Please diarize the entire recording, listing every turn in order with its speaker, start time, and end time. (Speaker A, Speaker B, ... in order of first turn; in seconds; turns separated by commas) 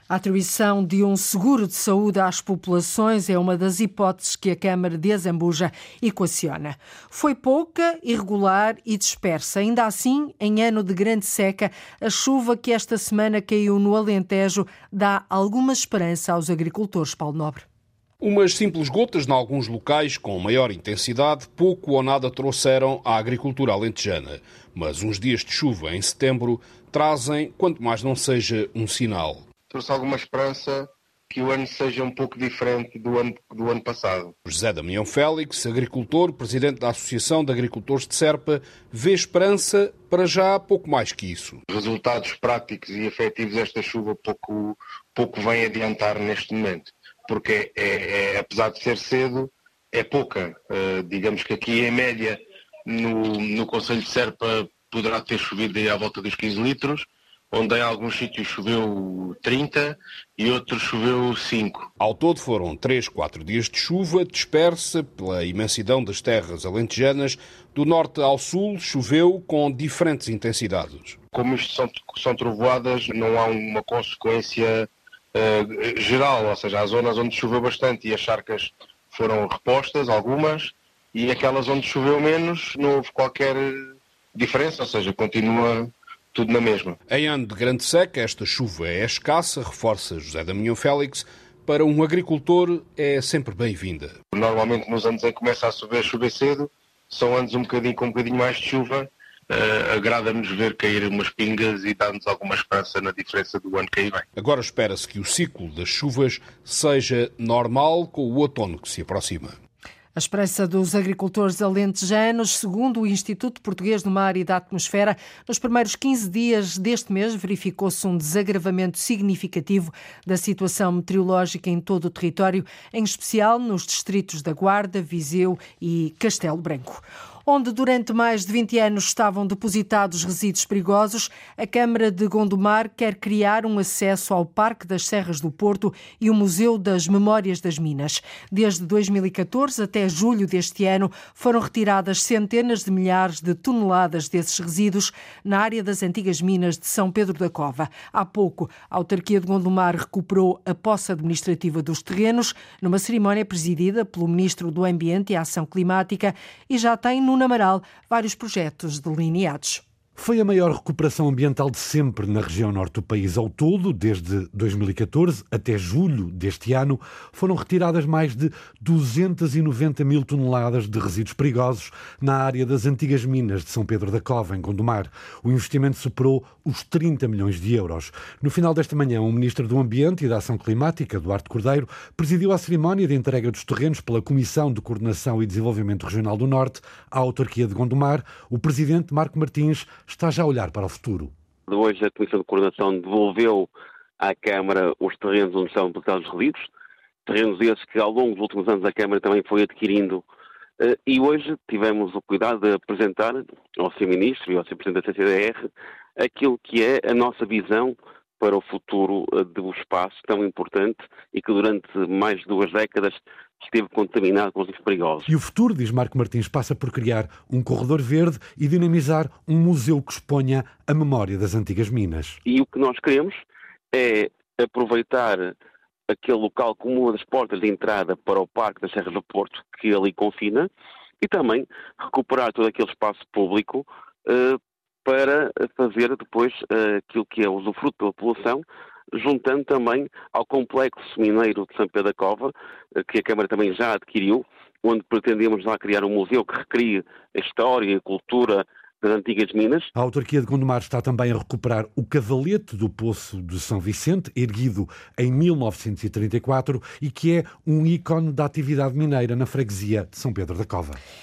Speaker A: 0.1-17.6, Speaker B: 18.2-29.4, Speaker C: 29.7-34.4, Speaker B: 34.5-41.6, Speaker C: 41.7-61.9, Speaker B: 62.0-71.2, Speaker C: 71.3-87.0, Speaker B: 87.1-94.1, Speaker C: 94.3-104.2, Speaker B: 104.4-109.5, Speaker A: 110.2-159.8, Speaker D: 160.2-191.3, Speaker E: 191.7-196.7, Speaker E: 197.2-200.2, Speaker E: 200.8-215.3, Speaker D: 215.2-222.4, Speaker E: 222.4-223.4, Speaker E: 223.9-225.5, Speaker E: 226.1-230.7, Speaker E: 231.2-249.9, Speaker D: 249.9-261.0